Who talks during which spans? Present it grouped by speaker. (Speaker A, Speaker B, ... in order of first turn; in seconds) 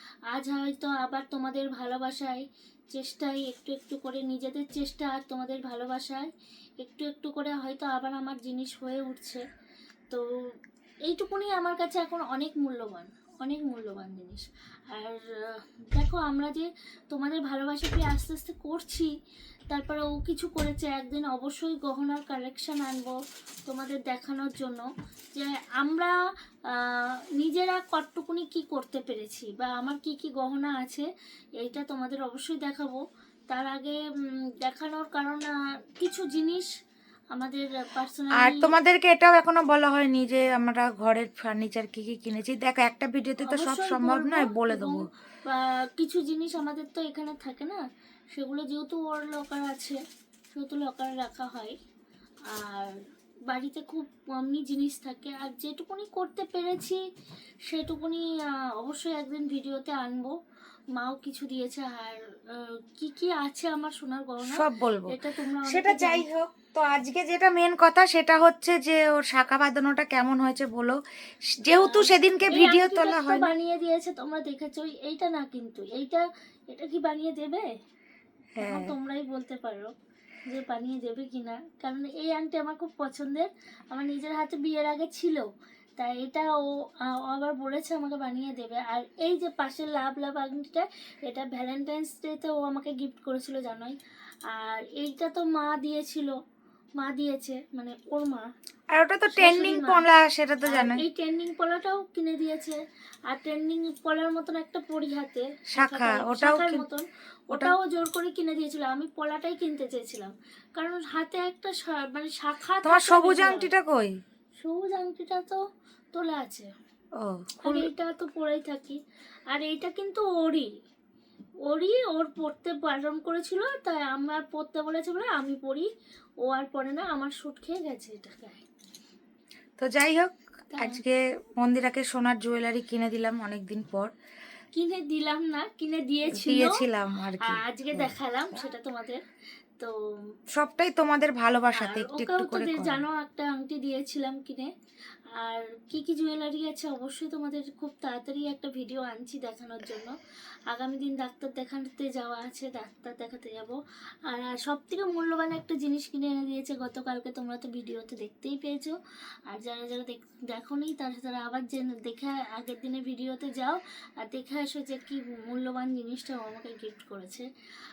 Speaker A: 0.3-9.4, 11.1-19.1, 19.7-26.1, 26.7-31.1, 31.6-33.0, 33.5-34.0, 34.6-36.7, 37.3-38.7, 43.4-47.8, 48.3-50.0, 50.5-51.7, 52.5-52.9, 53.5-57.0, 57.7-58.2, 58.8-60.3, 61.0-64.5, 65.1-66.2, 71.7-77.7, 78.6-79.9, 80.5-85.4, 86.0-94.0, 94.5-96.3, 97.0-98.4, 99.3-100.0, 100.7-102.8, 103.3-113.7, 114.6-115.6, 116.1-116.7, 117.6-119.0, 119.5-120.7, 121.7-125.9, 126.5-128.6, 130.7-131.0, 134.7-136.8, 137.4-139.2, 141.8-144.7, 145.4-150.1, 150.7-158.9, 159.5-167.5
Speaker B: 38.4-45.1, 64.4-71.0, 71.6-73.5, 78.6-78.9, 98.9-101.0, 105.7-106.8, 112.8-114.2, 117.2-117.9, 129.8-134.1, 136.3-138.1, 140.6-143.0